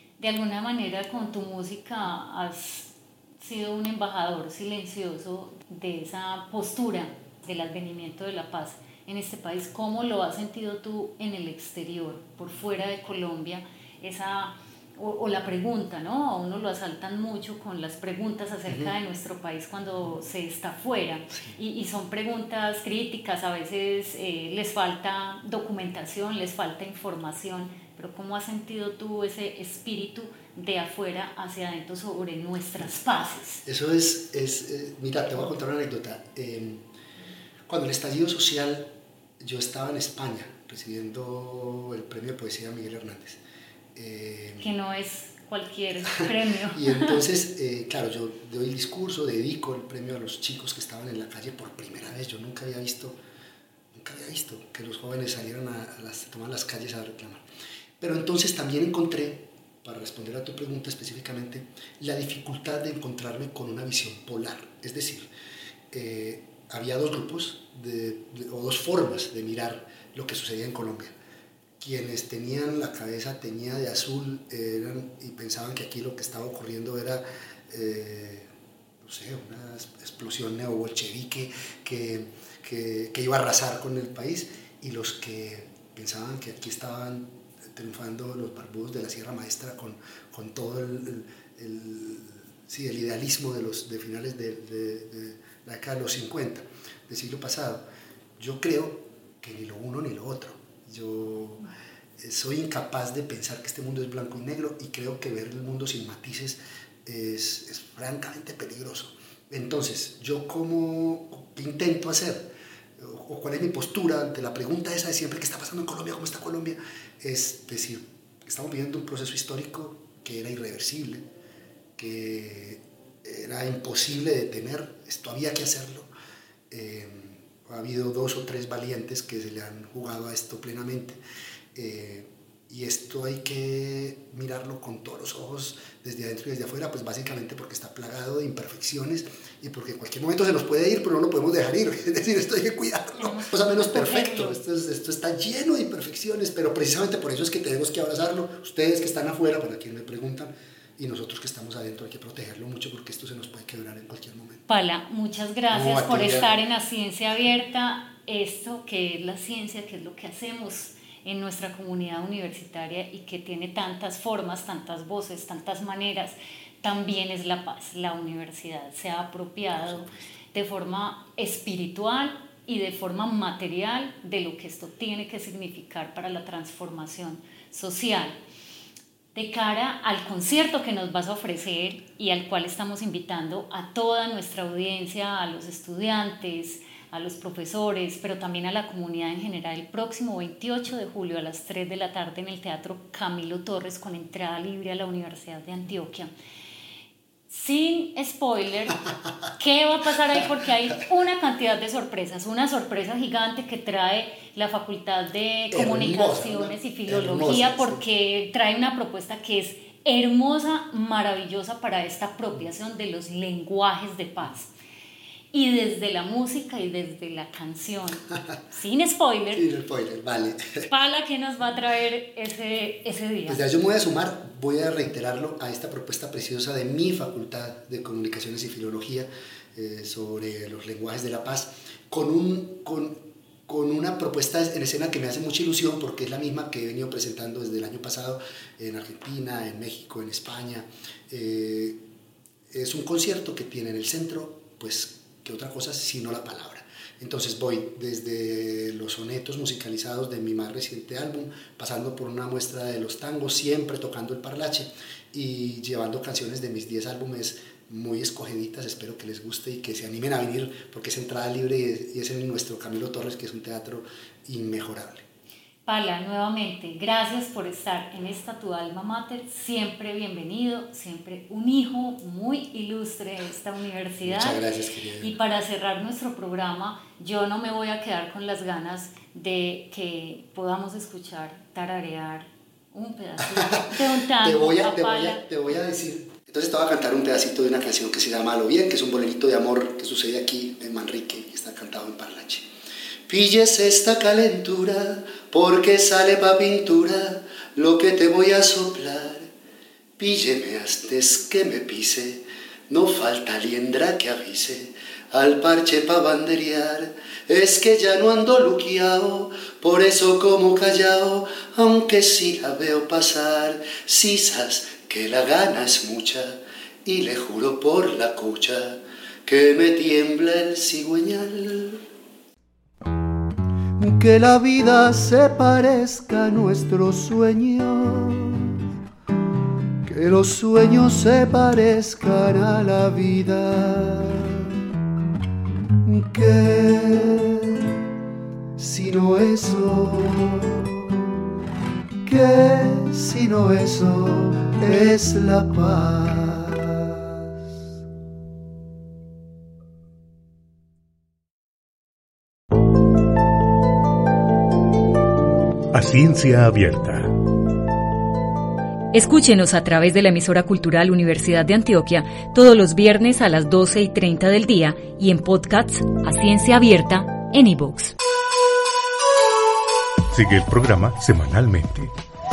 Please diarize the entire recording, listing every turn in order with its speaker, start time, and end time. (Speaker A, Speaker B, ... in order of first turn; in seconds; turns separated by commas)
Speaker A: 0.2-33.6, Speaker B: 33.6-36.8, Speaker B: 37.7-43.4, Speaker B: 44.0-44.7, Speaker A: 44.6-47.2, Speaker B: 46.2-53.2, Speaker B: 53.9-57.4, Speaker B: 58.0-65.3, Speaker B: 65.9-71.2, Speaker B: 71.8-78.5, Speaker B: 79.0-97.8, Speaker B: 98.4-121.2, Speaker B: 122.0-126.1, Speaker B: 126.7-131.2, Speaker B: 131.8-154.6, Speaker A: 143.2-144.6, Speaker A: 154.7-178.4, Speaker B: 155.7-156.6, Speaker B: 169.8-170.1, Speaker A: 179.3-196.3, Speaker A: 197.5-214.7, Speaker B: 205.7-208.0, Speaker A: 215.5-219.7, Speaker B: 219.5-220.9, Speaker A: 220.9-223.6, Speaker B: 223.5-242.0, Speaker B: 242.7-265.2, Speaker A: 265.9-274.6, Speaker B: 274.2-275.3, Speaker A: 275.2-285.4, Speaker B: 283.5-292.7, Speaker B: 293.3-299.5, Speaker B: 300.2-322.0, Speaker B: 324.0-328.8, Speaker B: 330.1-334.9, Speaker B: 336.0-338.1, Speaker B: 338.8-341.3, Speaker B: 342.2-347.9, Speaker C: 355.9-357.3, Speaker A: 359.1-368.1, Speaker C: 370.3-372.1